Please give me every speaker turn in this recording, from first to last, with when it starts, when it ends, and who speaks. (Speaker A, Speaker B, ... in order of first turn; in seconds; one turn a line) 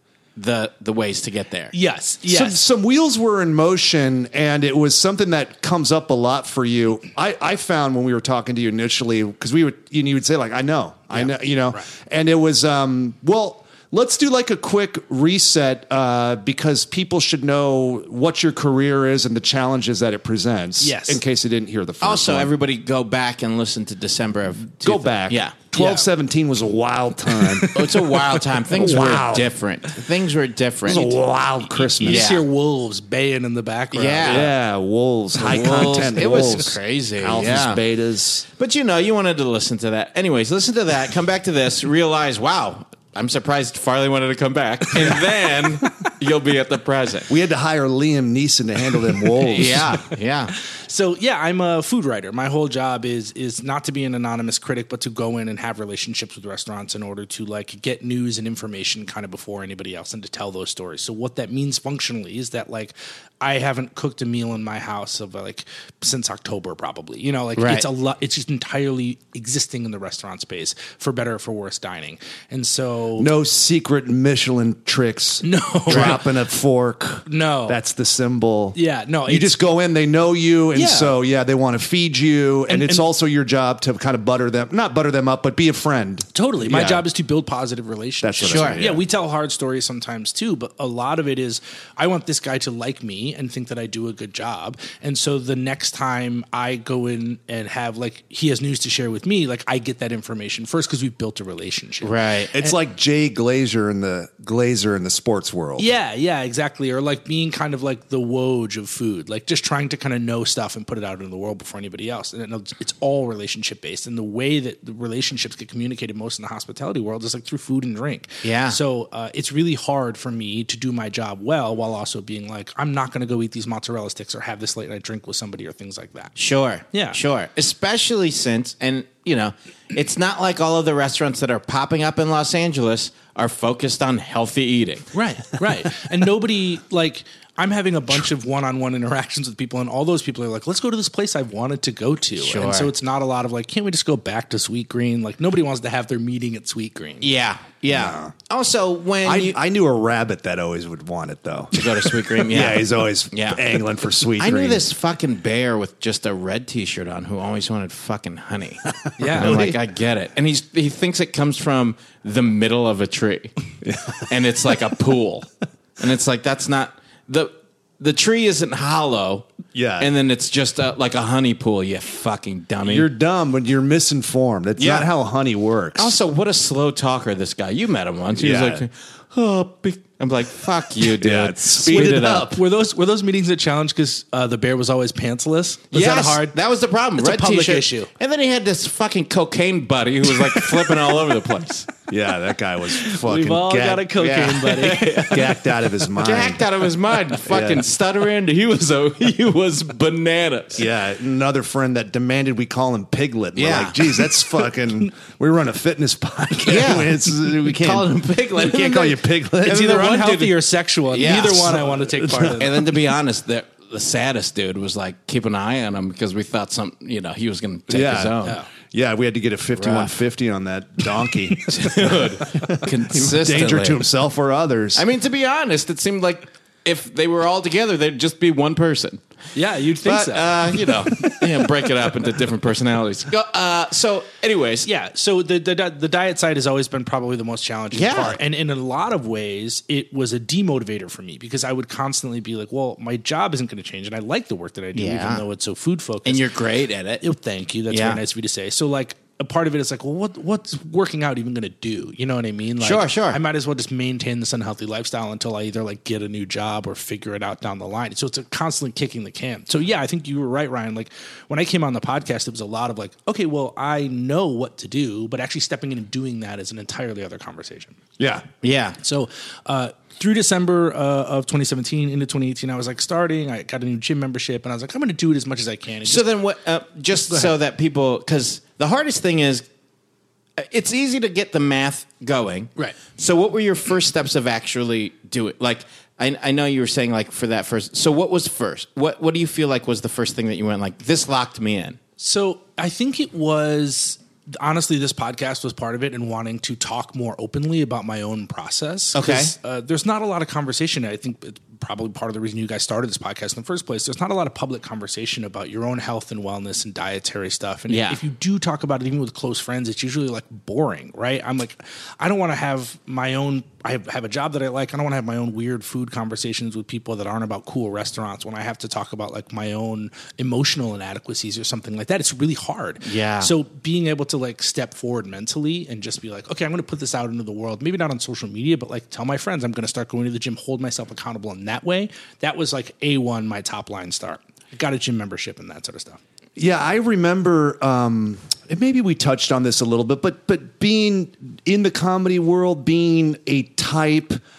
Speaker A: 0.4-1.7
Speaker B: 1.7-2.6
Speaker C: 2.3-22.5
Speaker B: 11.1-11.8
Speaker B: 20.8-21.2
Speaker A: 22.0-25.6
Speaker C: 24.8-28.1
Speaker B: 25.7-26.1
Speaker A: 27.7-31.1
Speaker C: 28.7-29.5
Speaker C: 30.9-32.3
Speaker B: 30.9-31.2
Speaker B: 32.0-34.5
Speaker A: 32.0-32.4
Speaker A: 33.9-34.5
Speaker C: 34.3-38.5
Speaker A: 35.4-37.8
Speaker B: 35.6-36.5
Speaker A: 38.6-47.3
Speaker B: 45.1-46.1
Speaker C: 47.3-50.0
Speaker B: 49.3-50.0
Speaker A: 49.5-50.5
Speaker B: 50.6-73.3
Speaker A: 67.6-67.9
Speaker C: 73.2-87.0
Speaker B: 75.4-76.2
Speaker B: 77.3-77.8
Speaker B: 78.8-79.6
Speaker B: 80.8-81.1
Speaker B: 82.7-83.0
Speaker B: 86.3-102.8
Speaker C: 88.2-89.0
Speaker A: 88.5-88.9
Speaker A: 102.0-102.5
Speaker C: 102.5-105.9
Speaker B: 105.8-126.3
Speaker A: 118.4-118.8
Speaker A: 126.4-135.1
Speaker B: 126.9-127.2
Speaker B: 135.1-147.3
Speaker A: 142.4-142.9
Speaker A: 147.2-149.6
Speaker C: 147.9-148.3
Speaker C: 149.2-154.8
Speaker A: 151.7-153.7
Speaker A: 154.4-158.8
Speaker C: 158.9-159.8
Speaker B: 159.2-159.6
Speaker A: 159.3-163.5
Speaker C: 163.8-164.2
Speaker A: 164.2-165.5
Speaker A: 166.0-169.5
Speaker C: 169.8-170.1
Speaker A: 170.0-173.1
Speaker C: 172.8-176.1
Speaker A: 174.8-175.1
Speaker A: 176.0-182.5
Speaker C: 178.3-178.9
Speaker C: 181.1-182.6
Speaker B: 181.9-186.6
Speaker A: 185.9-191.9
Speaker B: 187.2-188.1
Speaker C: 192.1-194.2
Speaker B: 193.0-195.4
Speaker A: 194.2-195.6
Speaker C: 195.3-196.7
Speaker A: 196.2-200.9
Speaker C: 197.5-197.9
Speaker C: 200.8-210.0
Speaker A: 203.6-204.4
Speaker A: 206.7-218.6
Speaker B: 209.6-212.8
Speaker C: 212.1-212.5
Speaker C: 217.9-225.0
Speaker B: 218.4-218.7
Speaker A: 219.8-220.2
Speaker A: 221.7-224.1
Speaker A: 224.9-229.2
Speaker B: 229.6-232.1
Speaker A: 230.0-234.9
Speaker B: 234.9-246.6
Speaker A: 237.9-238.4
Speaker A: 244.9-245.4
Speaker A: 246.2-247.2
Speaker B: 247.2-268.0
Speaker A: 247.9-248.2
Speaker A: 252.8-253.4
Speaker C: 268.2-268.5
Speaker A: 268.6-269.0
Speaker B: 269.0-276.3
Speaker A: 276.1-279.6
Speaker A: 280.6-292.0
Speaker B: 292.2-336.2
Speaker A: 299.1-299.5
Speaker A: 307.9-308.2
Speaker A: 323.0-323.5
Speaker C: 336.6-344.4